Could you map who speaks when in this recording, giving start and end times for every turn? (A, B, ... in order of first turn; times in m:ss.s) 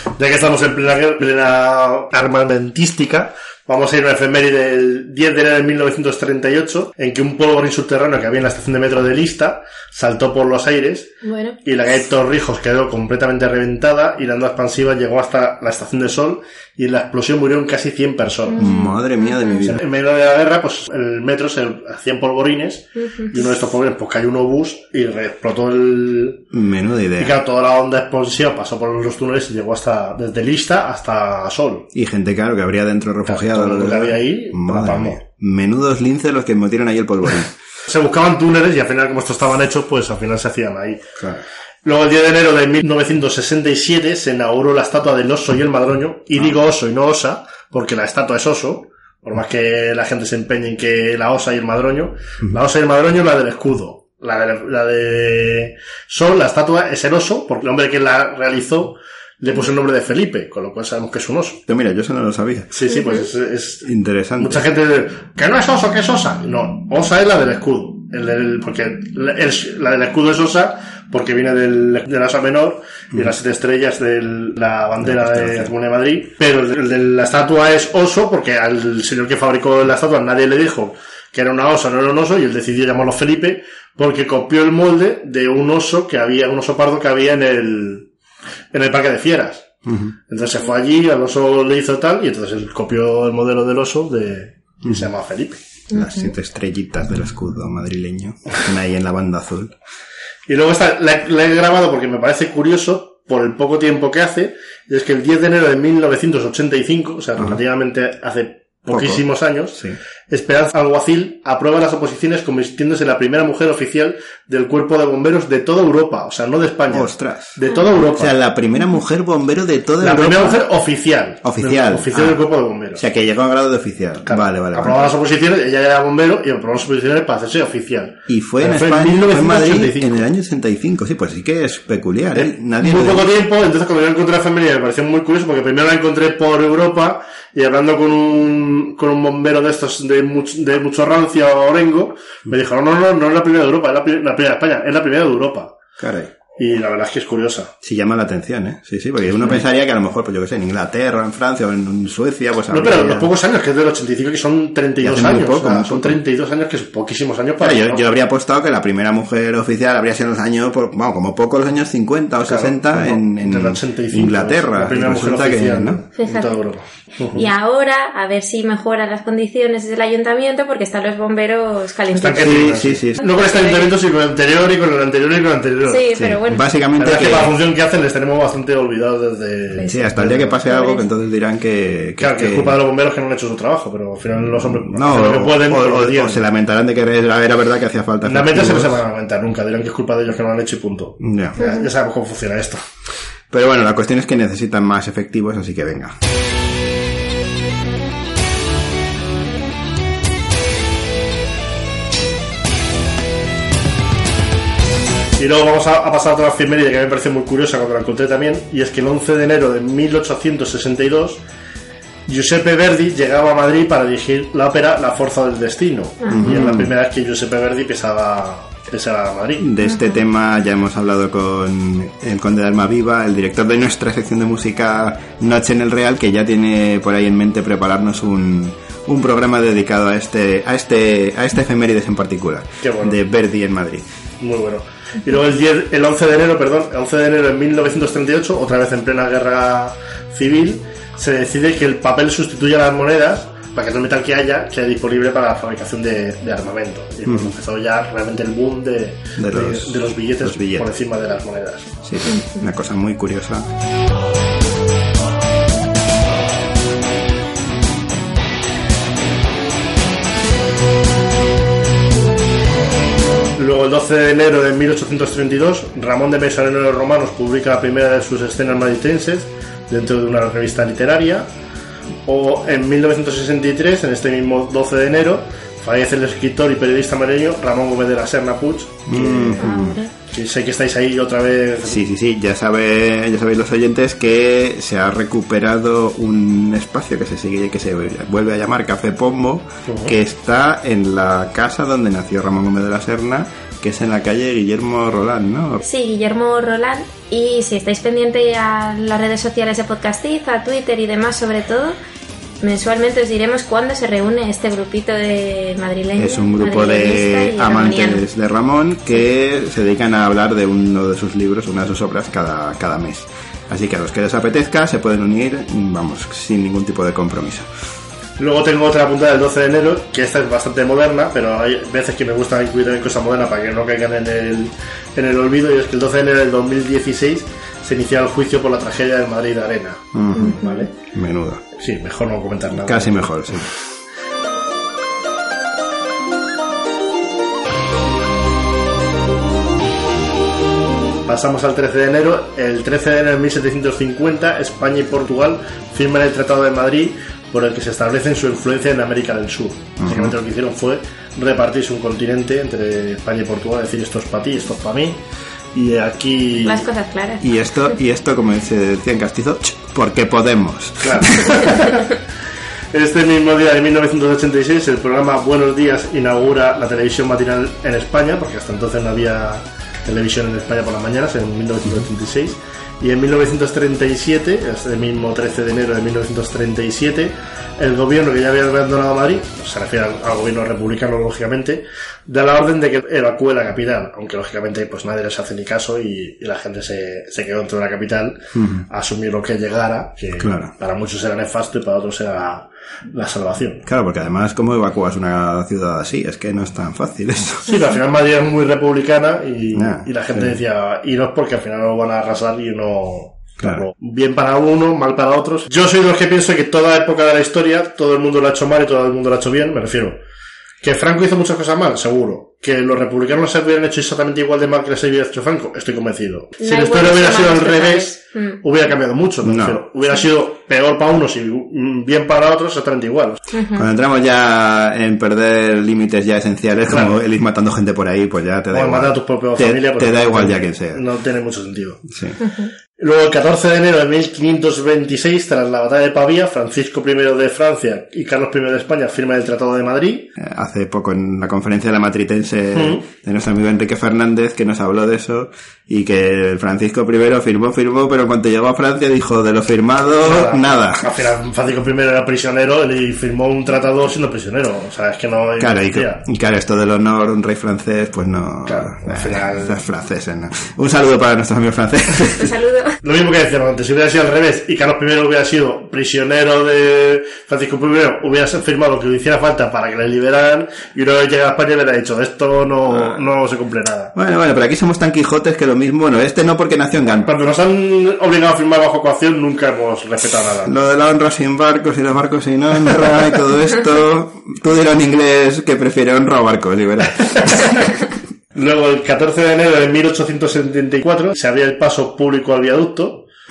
0:00.2-0:11.1 A
0:11.2-0:11.6 B
0:11.6-0:18.6 A
0:18.5-0:19.6 B
0:18.6-0:19.8 C
0:19.6-0:26.5 A
0:26.5-0:27.4 C
0:27.2-0:31.9 A
0:31.9-0:37.5 C
0:33.2-0:35.2 A
0:37.9-0:41.0 A
0:41.2-0:41.4 C
0:41.8-1:01.6 A
1:01.7-1:02.7 C
1:02.7-1:03.9 A
1:02.9-1:03.2 B
1:03.8-1:04.6 C
1:04.4-1:28.1 A
1:15.0-1:15.7 C
1:28.7-1:29.7 A
1:29.8-1:30.1 C
1:30.3-1:35.6 A
1:35.9-1:39.7 C
1:35.9-1:36.3 B
1:40.5-1:49.8 A
1:48.9-1:49.2 C
1:50.3-1:58.3 A
1:56.9-1:57.6 C
1:58.1-2:00.6 C
2:00.0-2:03.0 A
2:01.4-2:02.4 C
2:02.9-2:05.0 C
2:04.3-2:10.2 A
2:08.3-2:13.3 C
2:12.3-2:25.8 A
2:26.0-2:26.3 C
2:26.6-2:27.7 A
2:27.8-2:33.3 C
2:32.7-2:38.0 A
2:35.0-2:36.2 C
2:37.6-2:46.0 C
2:42.4-2:47.4 A
2:46.2-2:46.6 B
2:47.3-2:54.0 B
2:52.1-2:56.0 A
2:52.3-2:53.2 C
2:55.9-2:56.6 B
2:56.1-2:57.5 C
2:57.0-3:00.5 A
2:59.7-3:01.1 B
2:59.9-3:02.8 C
3:02.2-3:06.4 A
3:04.5-3:09.0 C
3:08.2-3:12.8 A
3:11.2-3:11.6 C
3:11.6-3:11.9 B
3:13.5-3:16.2 C
3:25.4-3:31.4 A
3:32.3-3:39.7 A
3:36.2-3:36.6 B
3:36.3-3:36.9 C
3:39.6-3:54.0 C
3:39.8-3:40.2 B
3:52.8-3:53.2 A
3:54.4-4:11.9 A
4:07.2-4:07.5 C
4:09.4-4:10.9 C
4:12.0-4:13.7 C
4:23.6-4:31.5 A
4:32.2-4:39.7 A
4:39.1-4:40.0 C
4:39.6-4:40.1 B
4:40.3-4:42.0 A
4:41.9-4:55.8 C
4:49.8-4:50.1 A
4:55.8-5:02.0 B
5:02.6-5:08.2 B
5:06.2-5:17.7 C
5:18.4-5:30.9 A
5:30.1-5:31.6 C
5:30.4-5:30.8 B
5:31.8-5:33.7 A
5:32.8-5:33.7 C
5:41.2-5:55.2 A
5:50.0-5:50.3 C
5:55.7-5:56.9 A
5:56.6-5:57.4 B
5:57.4-6:01.8 C
6:01.0-6:02.1 A
6:02.9-6:33.8 A
6:28.5-6:28.8 C
6:30.4-6:30.7 C
6:33.8-6:37.7 C
6:37.6-6:50.2 A
6:39.7-6:40.5 C
6:43.6-6:43.8 C
6:50.8-7:03.4 A
6:56.6-6:58.6 B
6:59.4-6:59.8 C
7:03.5-7:03.9 B
7:03.8-7:11.0 C
7:06.9-7:07.1 A
7:08.7-7:12.0 A
7:12.1-7:12.4 C
7:12.4-7:12.7 B
7:13.0-7:20.3 A
7:20.4-7:31.0 C
7:22.7-7:23.0 A
7:30.2-7:36.2 A
7:35.6-7:42.5 C
7:38.6-7:39.8 A
7:42.3-7:43.0 B
7:43.0-7:54.1 A
7:52.9-7:53.2 C
7:54.1-7:57.3 C
7:57.2-8:00.7 A
8:00.6-8:07.9 C
8:07.2-8:07.8 A
8:08.5-8:13.2 A